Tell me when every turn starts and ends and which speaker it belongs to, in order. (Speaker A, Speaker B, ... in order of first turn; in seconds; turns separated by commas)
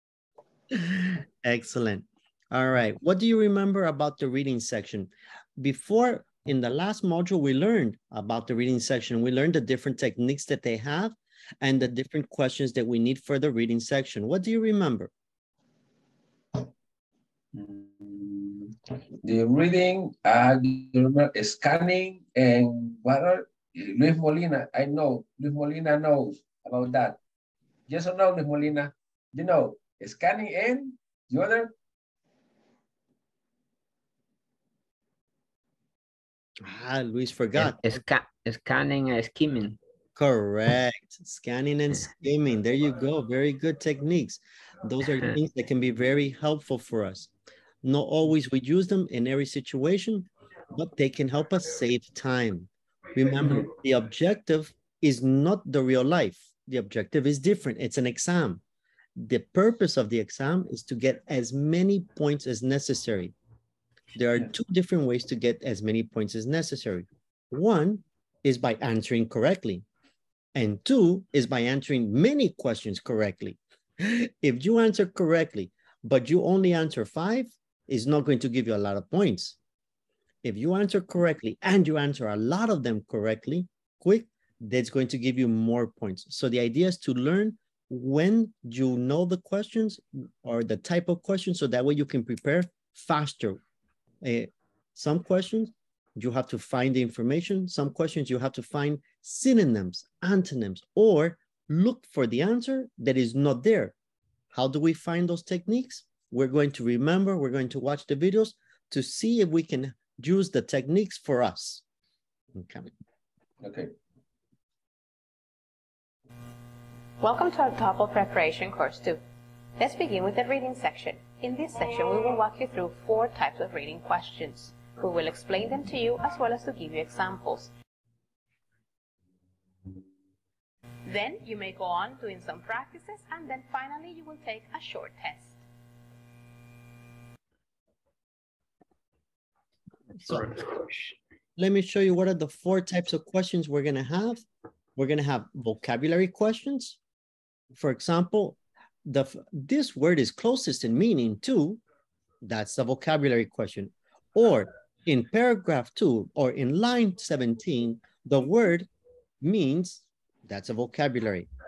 Speaker A: 0.7-15.1, Speaker B: 17.5-27.2, Speaker B: 27.9-31.7, Speaker A: 36.6-38.0, Speaker C: 37.5-39.8, Speaker A: 40.1-47.3, Speaker A: 47.8-58.6, Speaker A: 59.1-63.3, Speaker A: 64.1-69.8, Speaker A: 70.5-79.6, Speaker A: 80.4-93.6, Speaker A: 94.2-103.9, Speaker A: 104.5-111.8, Speaker A: 112.5-112.9, Speaker B: 113.6-113.9, Speaker D: 117.2-119.2, Speaker D: 119.8-127.7, Speaker D: 131.0-135.6, Speaker C: 140.1-141.2, Speaker A: 140.2-140.4, Speaker A: 141.6-144.4, Speaker A: 144.9-147.0, Speaker A: 147.7-151.8, Speaker A: 152.4-158.9, Speaker A: 159.4-161.5